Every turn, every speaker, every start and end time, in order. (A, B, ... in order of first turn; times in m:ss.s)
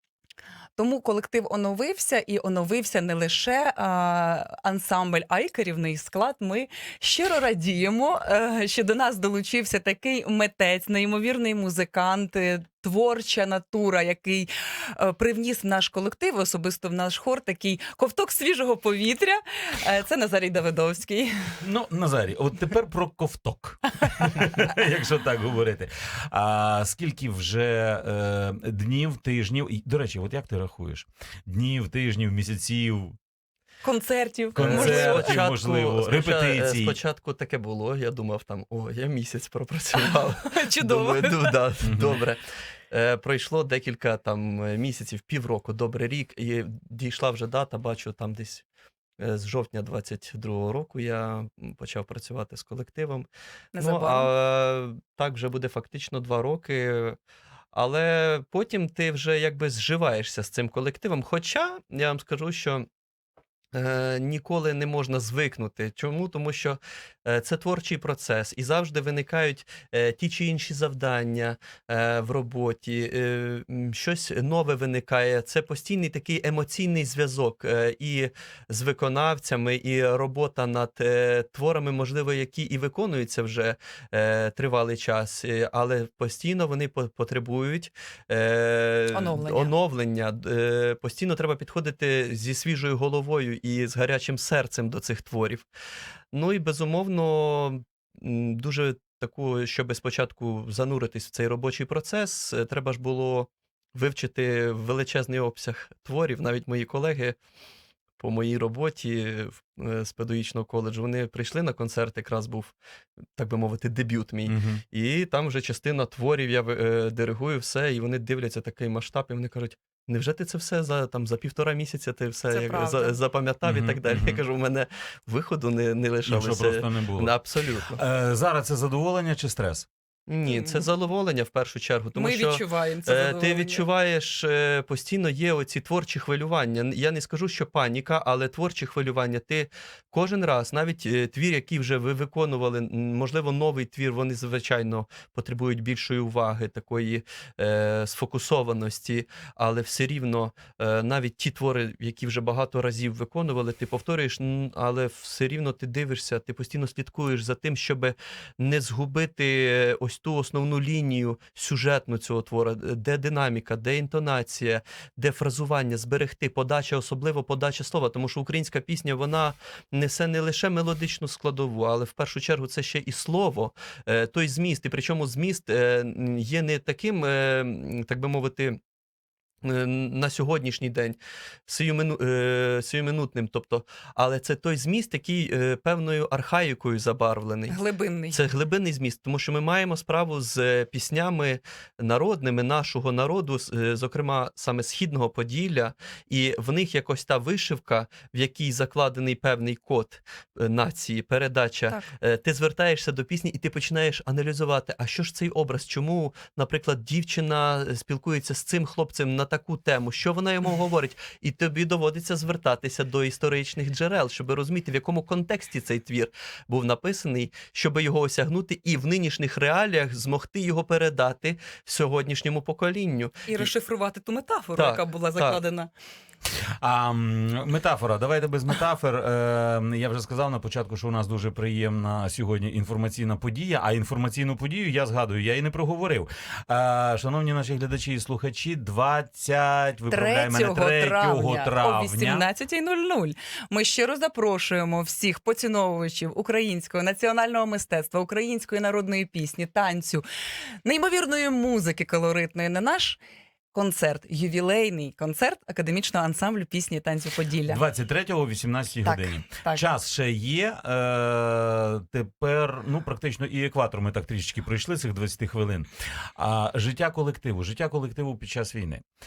0:00.8-0:21.6 A
0:21.6-0:33.2 B
0:33.8-0:35.4 A
0:34.5-0:37.0 B
0:34.6-0:48.6 C
0:40.0-0:41.6 A
0:41.8-0:42.1 B
0:49.2-0:53.3 C
0:53.7-0:54.3 A
0:53.8-0:57.2 C
0:57.7-1:02.8 C
1:03.7-1:35.6 C
1:29.1-1:29.7 A
1:36.3-1:47.4 C
1:48.2-1:52.7 C
1:53.4-2:08.0 C
1:54.5-1:54.8 B
2:02.5-2:03.2 A
2:03.6-2:04.4 B
2:06.2-2:09.9 B
2:10.3-2:58.8 C
2:10.5-2:10.9 A
2:12.1-2:13.8 A
2:59.6-3:07.8 C
3:07.7-3:08.4 A
3:08.3-3:43.7 C
3:43.4-3:45.9 A
3:44.8-3:45.6 C
3:46.8-4:02.4 B
4:00.1-4:10.2 A
4:10.8-4:13.2 A
4:13.7-4:17.8 A
4:17.6-4:29.0 B
4:19.0-4:19.8 A